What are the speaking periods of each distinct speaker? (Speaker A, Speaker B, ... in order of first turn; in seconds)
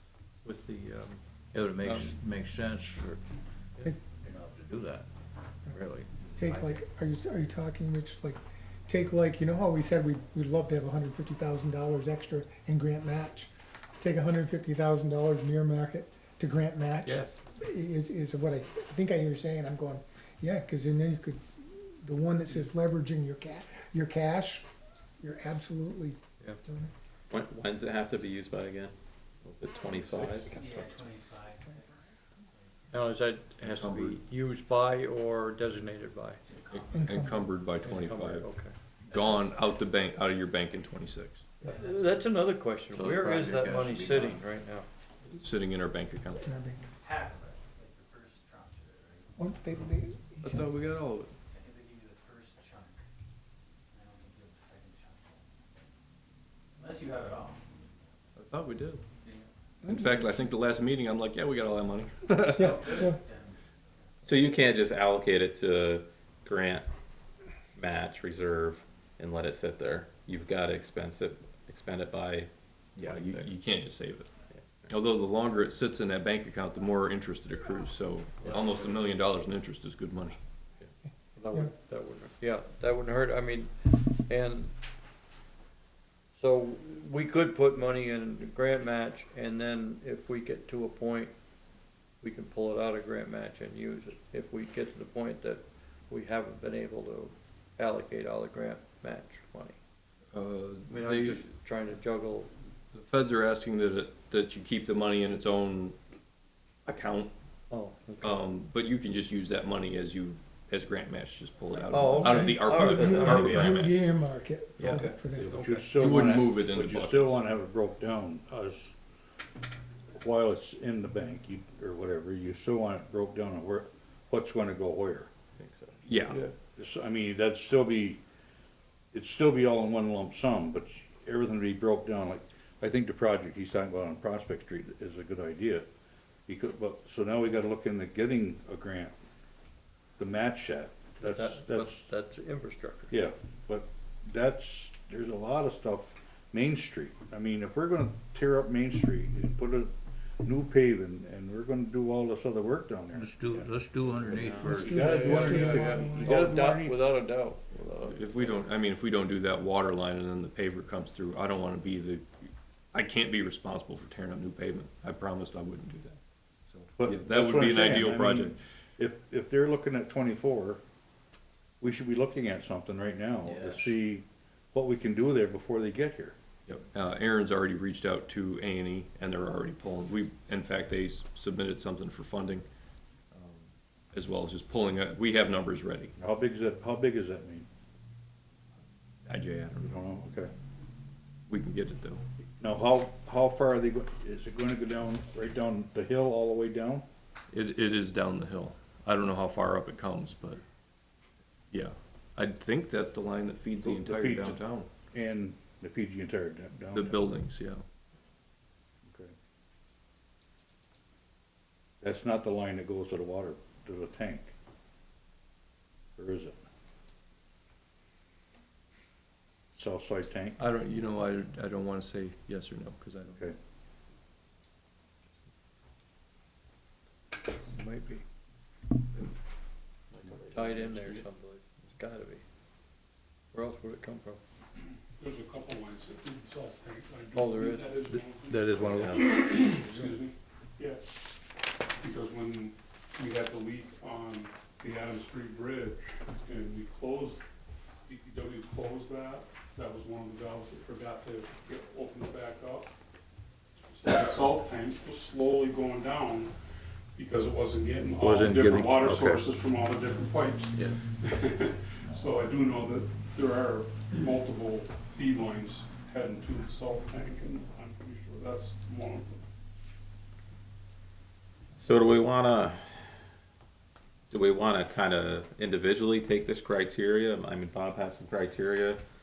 Speaker A: 0.4-2.2, 17.0-17.3, 32.9-36.4, 37.8-38.7, 41.7-44.9, 81.3-83.7, 84.2-84.7, 86.3-91.3, 92.2-99.8, 100.9-102.5, 107.7-108.4, 111.9-113.6, 141.2-143.2, 154.9-158.6, 227.7-228.2, 230.5-232.4, 233.5-234.4, 237.3-238.0
Speaker B: 1.5-3.2, 4.1-5.1, 5.7-6.7, 42.9-44.2, 153.1-154.8
Speaker C: 6.3-24.6, 25.2-26.9, 36.9-37.4, 46.3-46.9, 49.4-50.7, 59.8-60.3, 62.5-63.2, 112.0-115.6, 154.8-156.6
Speaker D: 27.3-31.3, 64.2-66.8, 67.7-73.5, 74.5-74.9, 113.0-113.7, 115.3-115.8, 125.6-126.0, 154.3-154.8, 230.2-230.5, 238.9-239.7, 271.8-273.1, 274.3-279.0
Speaker E: 29.9-32.9, 36.5-37.1, 39.1-39.6, 41.6-42.8, 47.0-49.9, 51.5-53.0, 53.9-55.9, 56.7-58.1, 59.2-59.5, 62.6-64.3
Speaker F: 33.6-34.2, 36.7-38.5, 39.1-41.5, 45.3-46.5, 50.4-51.3, 58.3-59.0, 59.9-62.7, 73.0-74.3, 74.9-80.4, 100.3-101.4, 102.9-106.0, 106.8-107.3, 108.2-114.1, 114.8-115.2, 115.9-117.4, 126.0-126.5, 158.1-162.3, 162.9-168.6, 176.7-182.6, 183.3-186.1, 189.2-189.9, 191.5-192.2, 197.5-200.6, 201.7-204.9, 206.9-207.8, 220.6-223.4, 230.7-231.2
Speaker G: 115.5-118.9, 120.2-125.3, 126.8-128.2, 129.1-135.9, 136.5-139.1, 140.2-142.1, 143.1-149.9, 150.4-153.7, 154.6-157.1, 167.0-170.8, 171.8-176.3, 186.2-187.7, 189.8-190.5, 192.6-197.0, 203.8-207.2, 209.1-209.3, 212.0-214.5, 216.2-216.6, 219.7-220.6, 238.5-239.2, 258.2-259.5
Speaker H: 154.7-155.9, 235.2-241.2, 241.9-247.4, 248.1-252.9, 253.9-256.5, 257.1-269.4